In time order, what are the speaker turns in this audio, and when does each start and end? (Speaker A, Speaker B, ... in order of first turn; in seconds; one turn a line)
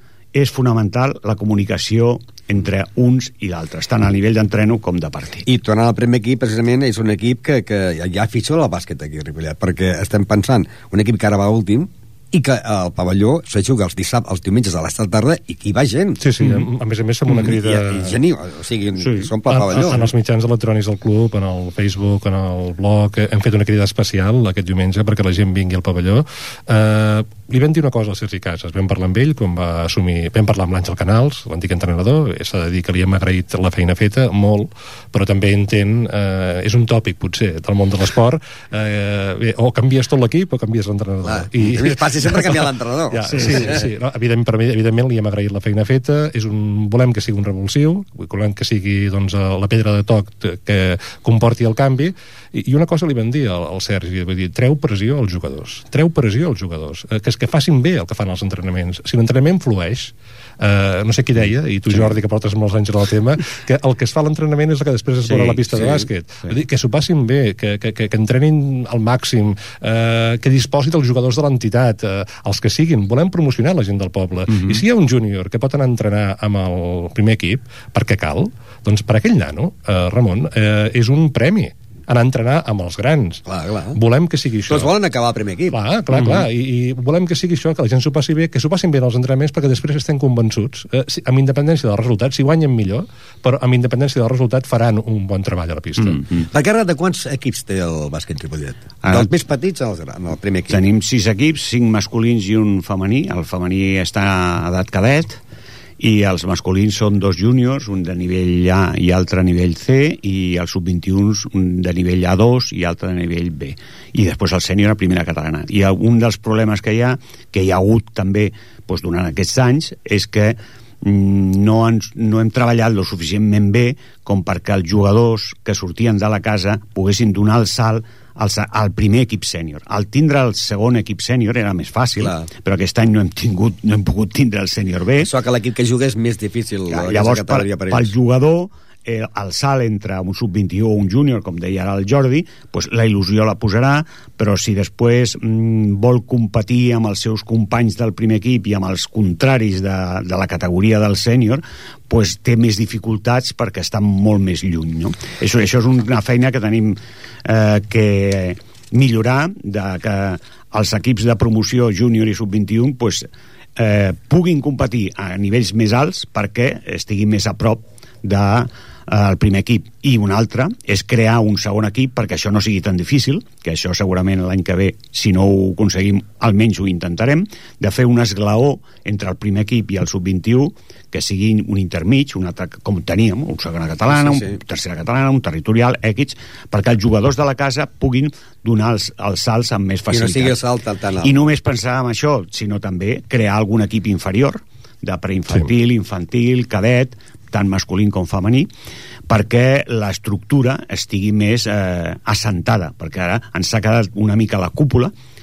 Speaker A: 0.3-5.5
Speaker B: 5.5-16.2
Speaker C: 16.2-18.1
Speaker B: 17.3-20.1
Speaker A: 19.0-19.3
Speaker C: 19.5-83.4
Speaker B: 41.2-43.8
Speaker A: 65.3-65.6
Speaker B: 65.7-66.0
Speaker B: 83.5-84.0
Speaker C: 83.9-84.9
Speaker B: 84.7-85.8
Speaker C: 85.7-96.2
Speaker A: 86.1-86.4
Speaker A: 96.0-96.4
Speaker B: 96.5-100.8
Speaker A: 100.7-105.4
Speaker A: 106.0-135.3
Speaker B: 132.2-132.5
Speaker B: 135.2-138.1
Speaker A: 136.9-190.6
Speaker B: 184.1-184.5
Speaker B: 190.1-191.4
Speaker A: 191.2-198.7
Speaker A: 199.3-205.1